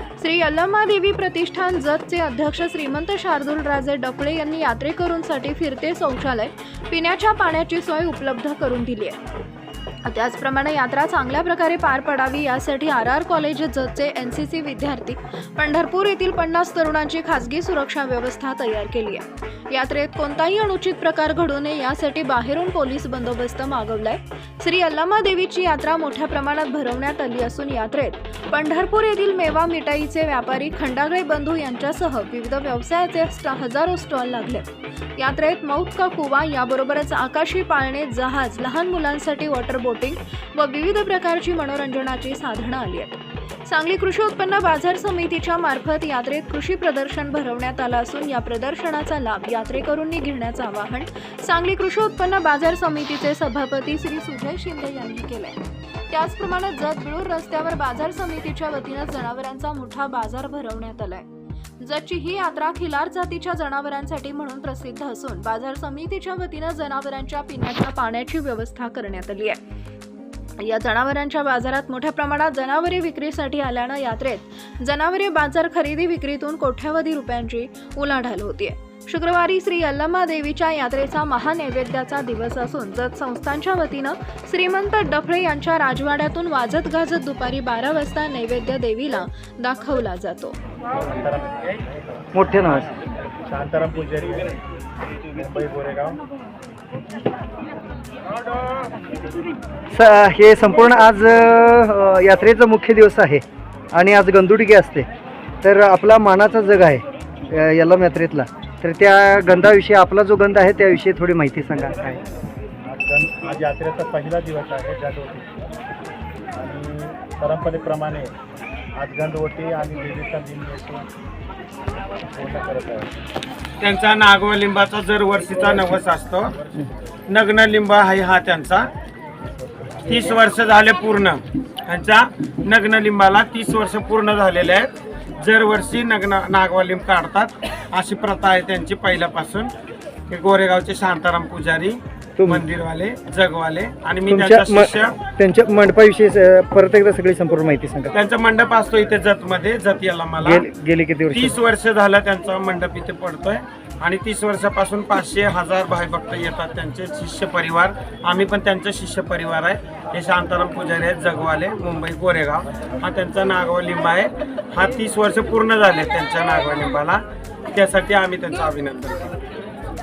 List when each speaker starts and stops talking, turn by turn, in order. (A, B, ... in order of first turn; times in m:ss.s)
0:00.2-0:09.2 A
0:10.0-0:55.6 A
0:56.1-1:01.3 A
1:01.8-1:09.6 A
1:10.6-1:30.6 A
1:30.9-1:32.2 B
1:32.3-1:32.8 C
1:33.5-1:34.6 B
1:35.3-1:36.2 B
1:39.9-1:45.1 C
1:45.6-1:52.2 C
1:52.9-1:55.7 B
1:56.6-1:58.3 B
1:59.0-2:01.1 B
2:02.3-2:03.1 B
2:03.8-2:06.6 D
2:07.3-2:08.9 D
2:09.8-2:10.1 B
2:10.0-2:19.7 D
2:20.3-2:25.2 D
2:22.4-2:22.6 C
2:24.3-2:28.1 C
2:28.1-2:30.7 D
2:30.4-2:31.6 C
2:31.3-2:49.4 D